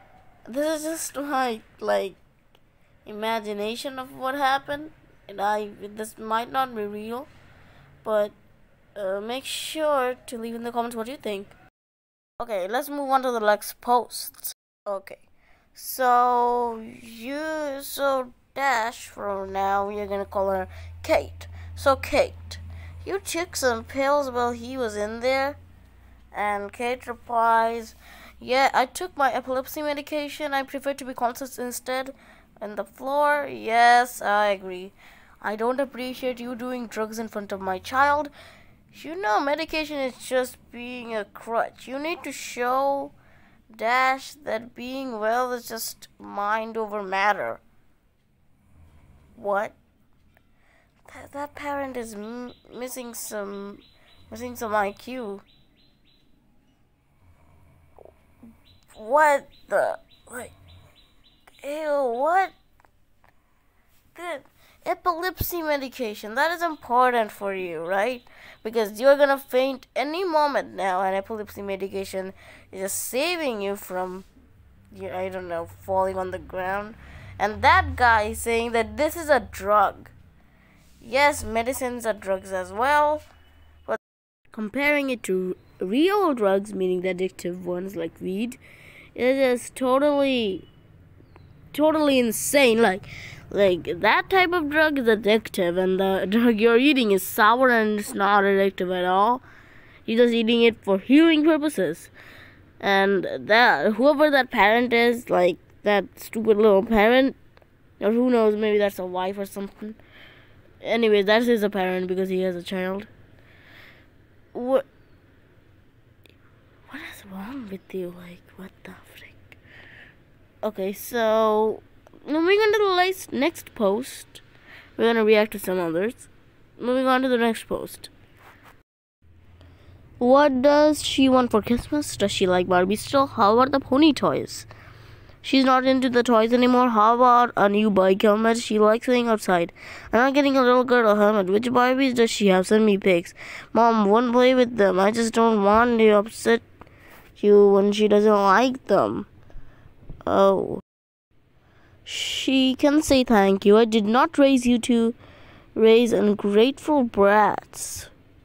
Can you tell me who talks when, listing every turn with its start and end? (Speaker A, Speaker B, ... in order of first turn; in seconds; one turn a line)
Speaker A: 0.5-2.2
Speaker A: 3.0-7.3
Speaker A: 8.0-8.3
Speaker A: 9.0-11.6
Speaker A: 12.4-15.2
Speaker A: 15.7-25.6
Speaker A: 26.3-38.3
Speaker A: 38.9-43.1
Speaker A: 43.7-47.6
Speaker A: 49.4-49.8
Speaker A: 51.1-55.5
Speaker A: 58.9-60.5
Speaker A: 61.6-62.5
Speaker A: 64.2-74.3
Speaker A: 74.9-80.1
Speaker A: 81.0-83.3
Speaker A: 84.5-88.6
Speaker A: 89.2-90.7
Speaker A: 91.7-99.4
Speaker A: 100.1-102.1
Speaker A: 102.8-107.4
Speaker A: 108.0-110.0
Speaker A: 110.8-113.1
Speaker A: 114.5-114.9
Speaker A: 116.9-119.6
Speaker A: 120.6-124.4
Speaker A: 125.0-128.1
Speaker A: 130.2-134.7
Speaker A: 135.4-146.7
Speaker A: 147.4-149.3
Speaker A: 150.2-150.8
Speaker A: 152.1-155.2
Speaker A: 155.8-158.1